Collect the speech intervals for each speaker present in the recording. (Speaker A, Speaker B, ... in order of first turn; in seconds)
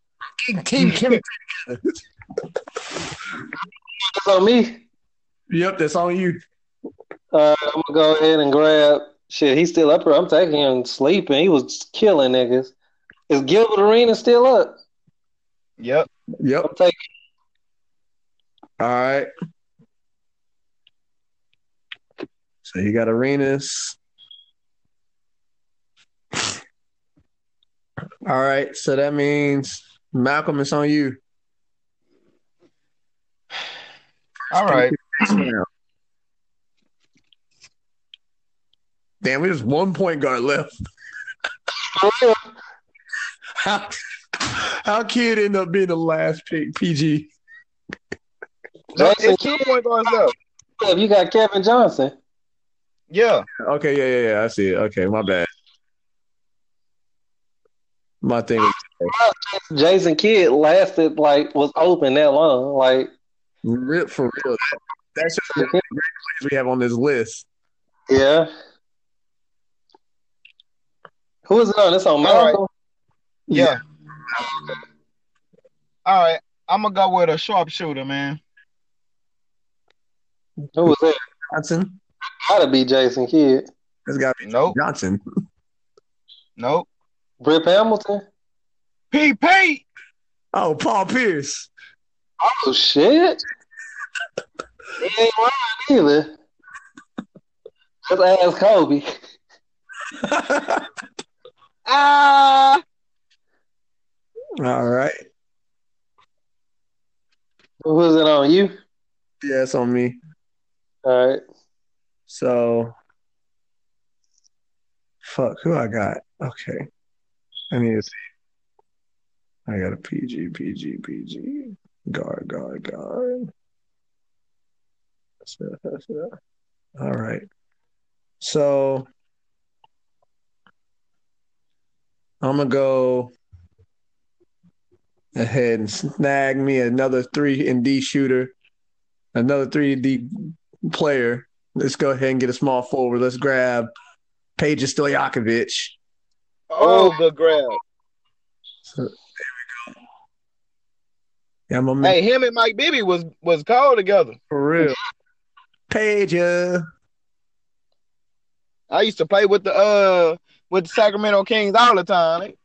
Speaker A: 0.4-2.0, 5.5-6.4, 16.4-16.7, 18.8-19.3, 22.6-24.0, 28.3-31.2, 34.6-35.7, 39.2-40.7, 43.6-47.3, 53.6-55.5, 58.2-59.1, 63.6-64.6, 65.2-67.5, 81.5-82.0, 84.1-85.2, 90.5-91.7, 100.2-100.9, 104.6-105.2, 109.4-110.2, 112.3-112.9, 115.2-116.9, 117.7-118.2, 119.7-123.5, 125.5-126.3, 127.0-127.5, 128.4-129.1, 132.4-133.3, 135.3-138.5, 139.3-143.9, 144.6-146.0, 148.8-149.8, 151.7-152.2, 154.5-155.0, 155.9-156.8
Speaker B: 0.8-1.2, 15.8-16.1, 34.5-35.5, 49.0-50.3, 53.1-53.5, 72.2-72.6, 73.5-73.8, 76.1-78.4, 84.4-84.8, 86.6-86.9, 89.1-89.8, 101.9-102.8, 146.7-147.8, 152.0-154.4, 158.9-162.6
Speaker C: 4.0-4.8, 7.3-12.7, 13.3-14.8, 16.6-17.0, 41.8-42.5, 49.0-49.8, 50.8-52.1, 59.1-63.1, 65.5-65.8, 68.1-68.5, 71.5-72.7, 80.8-81.2, 82.4-83.7, 87.4-88.3, 92.4-93.4, 95.0-96.3, 98.1-99.1, 107.8-108.8, 111.0-111.4, 146.8-147.2